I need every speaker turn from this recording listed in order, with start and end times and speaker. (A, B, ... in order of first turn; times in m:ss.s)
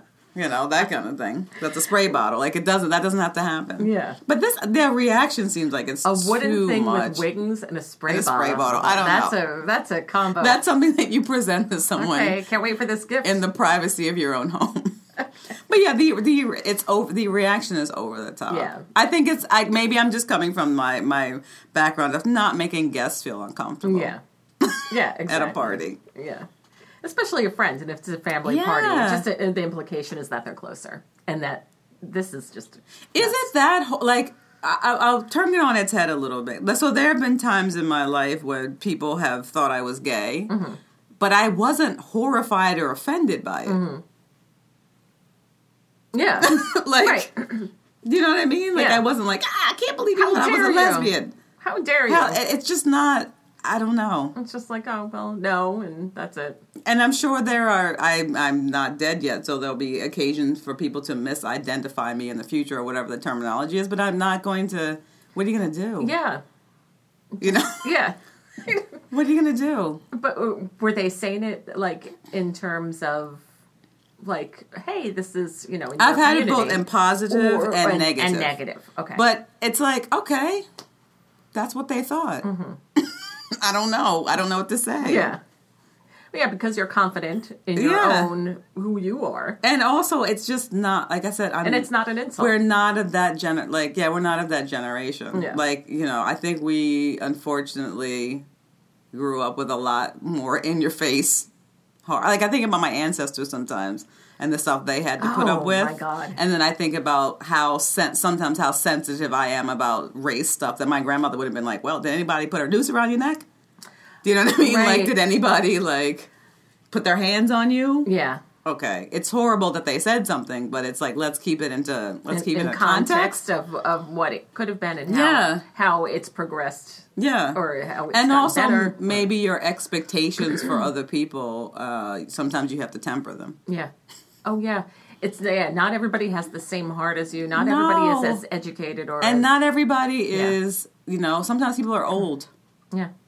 0:00.3-0:07.2 A
0:03.8-0:04.2 B
0:06.0-0:10.6 B
0:08.1-0:09.4 A
0:10.4-0:12.4 A
0:12.0-0:13.4 B
0:13.2-0:15.0 A
0:15.6-0:26.0 A
0:18.5-0:18.9 B
0:23.8-0:24.2 B
0:24.8-0:26.5 B
0:27.0-0:33.4 B
0:28.4-0:29.3 A
0:33.1-0:40.5 A
0:40.5-0:40.8 B
0:41.2-0:43.8 A
0:43.6-0:44.0 B
0:46.1-0:47.7 B
0:46.4-0:47.3 A
0:48.0-0:51.3 A
0:48.7-0:49.0 B
0:50.1-0:52.4 B
0:52.1-0:54.3 A
0:54.4-0:56.6 B
0:56.8-1:06.1 A
1:06.0-1:06.4 B
1:07.3-1:08.9 B
1:07.4-1:07.9 A
1:09.1-1:10.0 A
1:10.1-1:13.4 B
1:14.2-1:19.2 B
1:16.0-1:18.5 A
1:19.1-1:20.6 A
1:21.5-1:22.4 A
1:22.4-1:22.8 B
1:23.0-1:25.3 A
1:25.0-1:25.4 B
1:26.3-1:29.6 B
1:27.7-1:28.3 A
1:29.6-1:38.4 A
1:31.6-1:32.5 B
1:35.3-1:35.6 B
1:39.1-1:41.5 A
1:42.0-1:53.4 A
1:45.2-1:46.4 B
1:54.2-1:56.3 A
1:54.6-1:55.1 B
1:56.9-1:58.1 A
1:58.0-1:58.4 B
1:58.6-2:03.4 A
2:02.3-2:09.2 B
2:05.1-2:05.6 A
2:07.2-2:07.6 A
2:08.1-2:13.6 A
2:10.4-2:10.8 B
2:14.4-2:19.5 B
2:17.5-2:18.4 A
2:19.2-2:22.5 A